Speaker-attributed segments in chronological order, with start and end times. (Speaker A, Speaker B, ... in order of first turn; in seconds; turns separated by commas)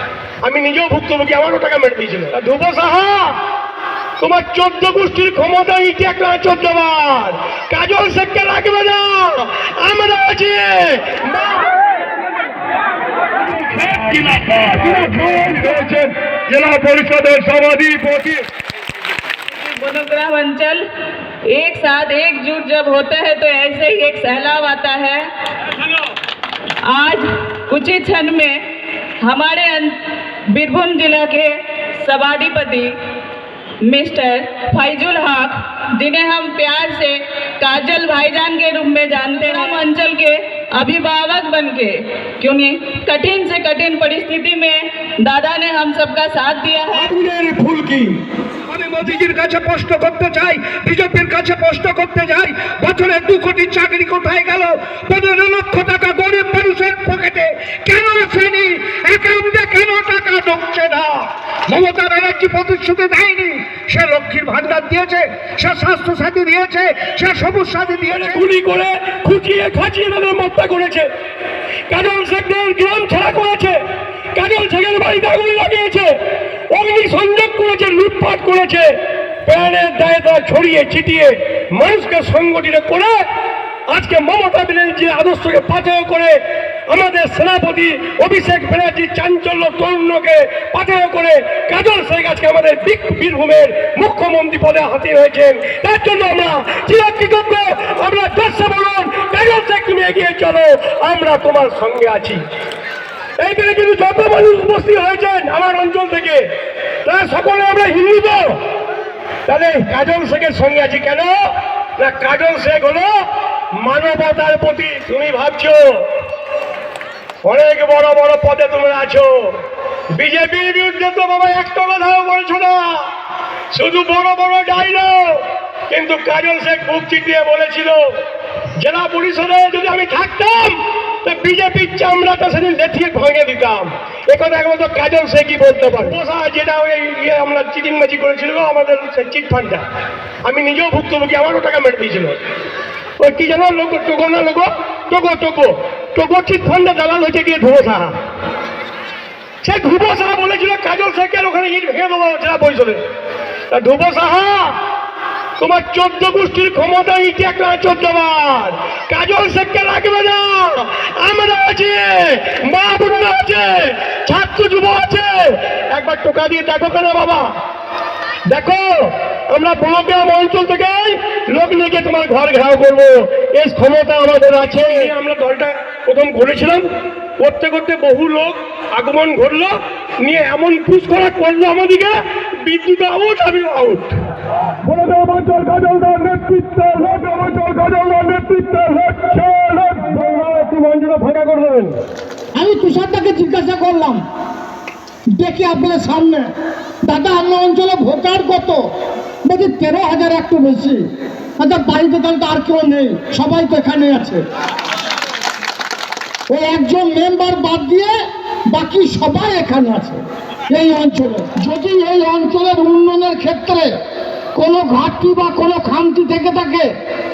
Speaker A: 0.4-3.4, Speaker A: 4.2-11.8, Speaker A: 13.4-18.4, Speaker B: 19.6-20.8, Speaker B: 21.5-25.3, Speaker B: 26.9-28.7, Speaker B: 29.2-33.0, Speaker B: 33.8-47.1, Speaker A: 46.9-48.2, Speaker C: 48.7-57.9, Speaker D: 56.7-57.1, Speaker D: 57.9-61.2, Speaker C: 58.5-60.9, Speaker C: 61.7-67.8, Speaker D: 62.7-64.5, Speaker D: 65.7-68.2, Speaker A: 68.1-71.1, Speaker A: 71.9-73.8, Speaker A: 74.3-83.2, Speaker A: 83.9-102.4, Speaker A: 103.4-106.5, Speaker A: 107.0-108.6, Speaker A: 109.5-111.4, Speaker A: 112.0-113.1, Speaker A: 113.8-116.1, Speaker A: 117.4-119.6, Speaker A: 120.1-123.1, Speaker A: 123.7-128.2, Speaker A: 128.8-139.8, Speaker A: 140.4-142.4, Speaker A: 143.2-148.2, Speaker A: 149.6-153.0, Speaker A: 153.7-154.8, Speaker A: 155.6-167.5, Speaker A: 168.5-184.2, Speaker A: 184.8-192.0, Speaker D: 192.5-194.2, Speaker D: 195.3-196.5, Speaker D: 197.0-198.8, Speaker D: 199.4-201.0, Speaker D: 201.6-204.4, Speaker D: 206.5-208.2, Speaker D: 208.7-213.9, Speaker D: 214.5-216.9